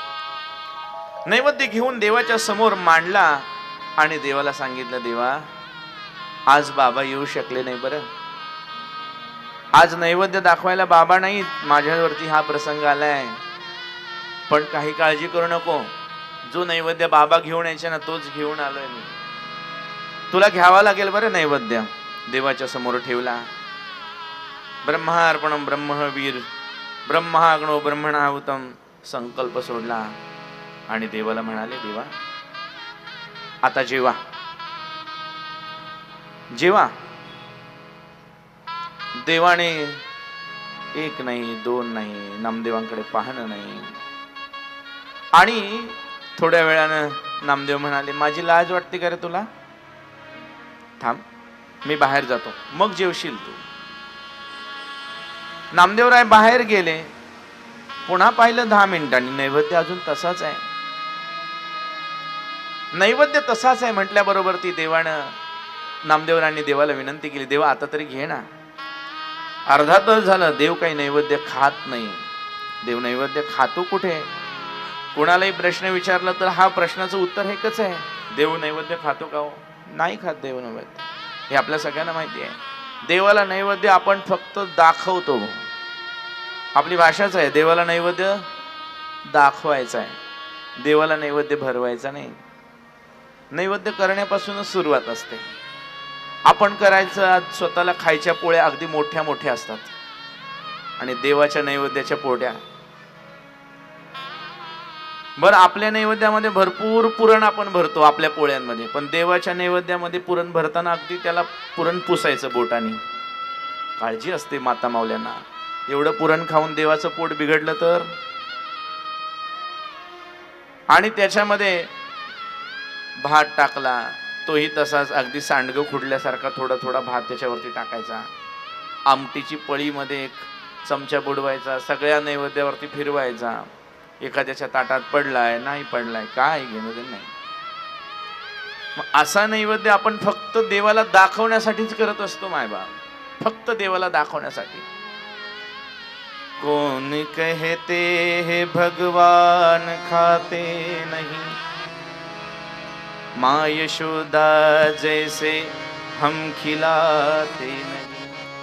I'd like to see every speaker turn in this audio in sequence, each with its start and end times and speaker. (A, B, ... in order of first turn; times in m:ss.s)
0:01.3-0:03.4 A
0:04.0-0:05.4 A
0:06.5-0:08.0 A
0:09.8-0:13.4 A
0:14.5-0:15.9 A
0:16.5-0:19.2 A
0:20.3-0:23.5 A
0:24.8-0:26.5 A
0:27.1-0:30.1 A
0:30.9-0:32.1 A
0:33.6-0:34.2 A
0:36.5-0:36.9 A
0:39.2-0:40.0 A
0:41.0-0:43.9 A
0:45.4-0:49.5 A
0:51.8-0:53.6 A
0:55.7-0:57.1 A
0:58.1-1:00.6 A
1:03.0-1:05.3 A
1:06.1-1:08.4 A
1:09.7-1:12.2 A
1:12.8-1:14.3 A
1:15.1-1:25.6 A
1:26.8-1:28.4 A
1:29.3-1:30.2 A
1:30.8-1:32.4 A
1:33.5-1:35.4 A
1:36.5-1:39.9 A
1:41.0-1:42.6 A
1:45.4-1:53.0 A
1:54.0-1:58.1 A
2:00.9-2:01.9 A
2:03.2-2:08.3 A
2:09.1-2:13.7 A
2:14.2-2:17.3 A
2:19.0-2:24.9 A
2:26.6-2:31.5 A
2:33.4-2:38.3 A